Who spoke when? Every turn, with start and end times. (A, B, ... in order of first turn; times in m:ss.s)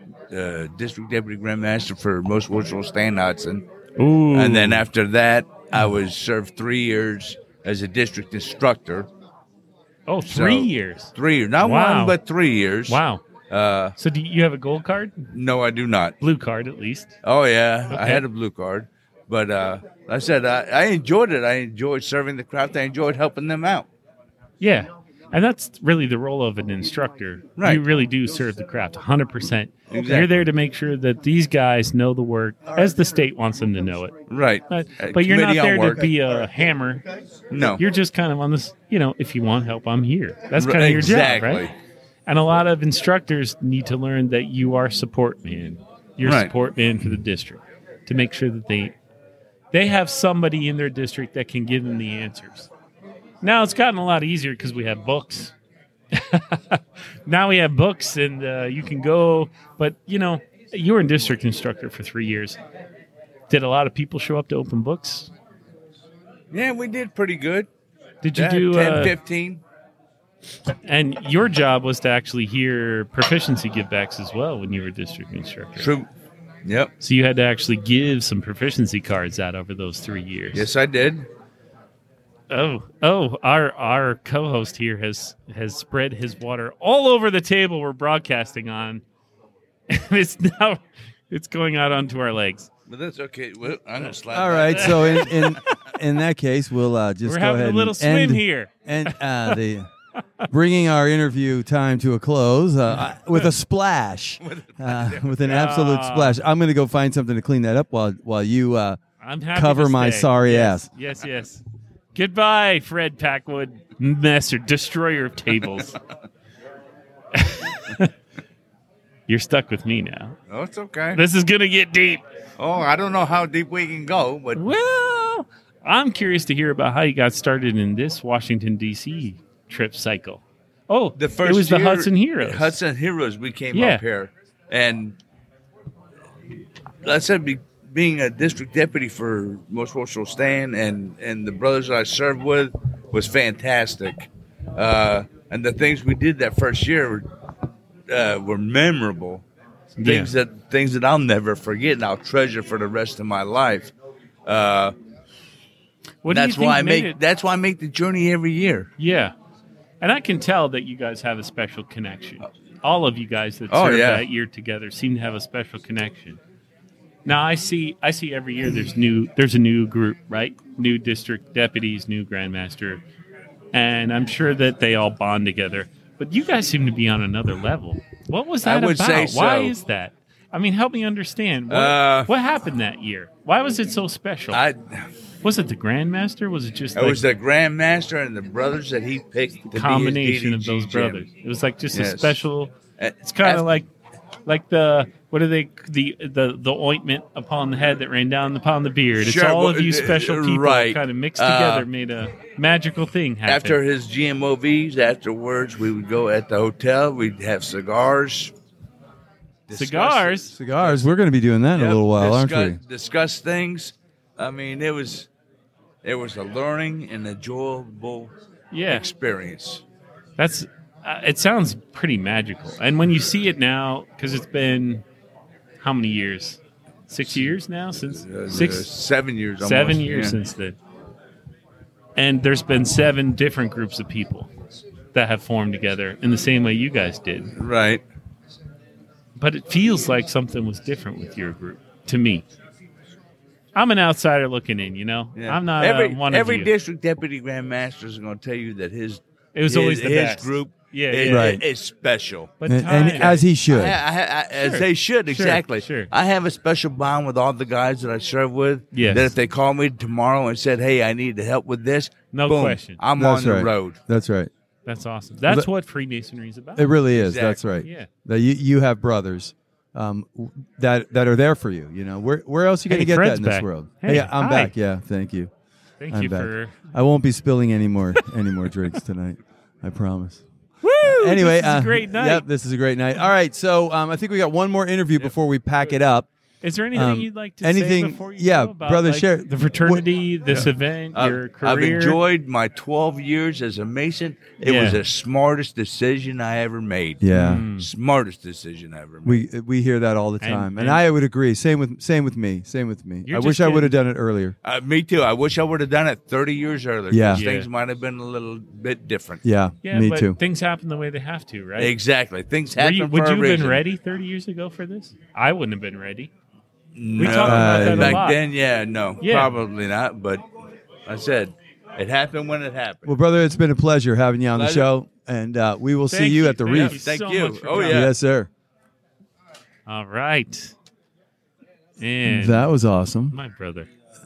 0:00.3-0:03.6 A
0:04.0-0:04.9 B
0:04.3-0:09.1 A
0:10.1-0:12.2 B
0:10.2-0:13.9 A
0:12.9-0:13.2 B
0:14.0-0:15.3 B
0:15.3-0:16.2 A
0:16.2-0:17.1 B
0:17.2-0:23.9 A
0:17.9-0:18.2 B
0:24.6-0:34.1 B
0:27.6-0:27.8 A
0:29.9-0:30.3 A
0:34.3-0:36.0 A
0:34.7-0:37.0 B
0:37.5-0:37.8 A
0:37.6-0:41.7 B
0:40.6-0:41.7 A
0:42.2-0:48.9 B
0:46.2-0:46.5 A
0:49.7-0:52.7 B
0:53.4-0:55.5 B
0:56.1-1:02.6 B
1:03.5-1:05.3 B
1:06.5-1:07.7 A
1:08.2-1:09.2 B
1:08.3-1:09.6 A
1:10.8-1:15.9 B
1:15.8-1:16.1 A
1:16.6-1:16.9 A
1:17.0-1:20.7 B
1:20.5-1:21.3 A
1:22.5-1:29.0 B
1:29.9-1:32.7 B
1:32.9-1:35.6 A
1:34.3-1:39.9 C
1:34.8-1:35.7 B
1:37.2-1:39.6 B
1:40.5-1:49.0 C
1:44.4-1:45.4 A
1:45.4-1:46.4 B
1:49.2-1:51.6 B
1:49.5-1:50.9 C
1:52.1-1:56.0 B
1:57.3-1:58.1 B
1:59.3-2:00.4 B
2:00.5-2:01.2 A
2:01.1-2:02.2 B
2:02.6-2:04.7 A
2:04.5-2:12.8 B
2:11.2-2:15.2 A
2:13.7-2:14.0 B
2:17.0-2:27.2 A
2:28.1-2:29.4 A
2:30.0-2:30.3 B
2:30.0-2:33.9 A
2:34.4-2:34.9 A
2:36.2-2:37.2 B
2:36.3-2:38.9 A
2:39.0-2:39.3 B
2:40.0-2:46.4 B
2:43.7-2:44.2 A
2:47.2-2:53.0 B
2:53.7-3:04.6 B
2:58.6-2:59.7 A
3:01.7-3:02.3 A
3:04.5-3:05.0 A
3:05.4-3:07.2 B
3:07.0-3:11.3 A
3:09.7-3:13.9 B
3:11.9-3:12.4 A
3:13.0-3:13.7 A
3:14.4-3:23.8 B
3:19.2-3:21.9 A
3:23.4-3:28.5 A
3:29.7-3:31.1 A
3:29.7-3:30.5 B
3:30.5-3:32.8 C
3:31.7-3:35.3 A
3:36.0-3:38.3 A
3:38.7-3:39.1 B
3:38.9-3:39.8 A
3:40.4-3:45.0 B
3:45.8-3:48.9 B
3:47.3-3:47.5 A
3:48.2-3:50.4 A
3:49.6-3:50.8 B
3:52.2-3:54.5 B
3:55.1-3:57.5 B
3:57.6-3:58.0 A
3:59.4-4:02.4 B
4:03.7-4:06.7 B
4:05.3-4:24.0 A
4:09.5-4:11.6 B
4:11.3-4:11.6 C
4:12.6-4:13.5 B
4:12.6-4:14.0 C
4:14.5-4:16.1 B
4:18.9-4:19.3 B
4:22.3-4:23.0 B
4:23.2-4:24.5 C
4:24.8-4:27.0 B
4:26.8-4:35.5 C
4:27.1-4:27.7 A
4:27.8-4:28.1 B
4:32.9-4:34.7 B
4:36.0-4:36.8 B
4:36.1-4:40.4 C
4:40.8-4:42.4 B
4:41.0-4:46.3 C
4:46.6-4:52.2 B
4:46.9-4:50.0 C
4:50.5-4:59.4 A
4:54.6-4:55.0 B
4:57.2-4:57.6 C
4:57.3-4:57.9 B
4:59.2-5:04.5 C
5:00.4-5:01.0 B
5:03.2-5:03.9 B
5:04.6-5:09.4 A
5:07.1-5:07.4 C
5:07.3-5:07.7 B
5:09.4-5:10.4 C
5:09.8-5:11.9 B
5:11.8-5:13.8 A
5:12.8-5:16.3 B
5:16.9-5:20.4 A
5:17.2-5:18.4 B
5:17.2-5:18.3 C
5:19.2-5:19.5 B
5:21.0-5:23.1 A
5:23.0-5:27.0 C
5:24.5-5:24.9 A
5:26.1-5:28.1 B
5:26.7-5:28.1 A
5:27.7-5:28.5 C
5:29.8-5:30.7 B
5:32.0-5:32.7 B
5:32.2-5:33.4 C
5:33.3-5:33.9 B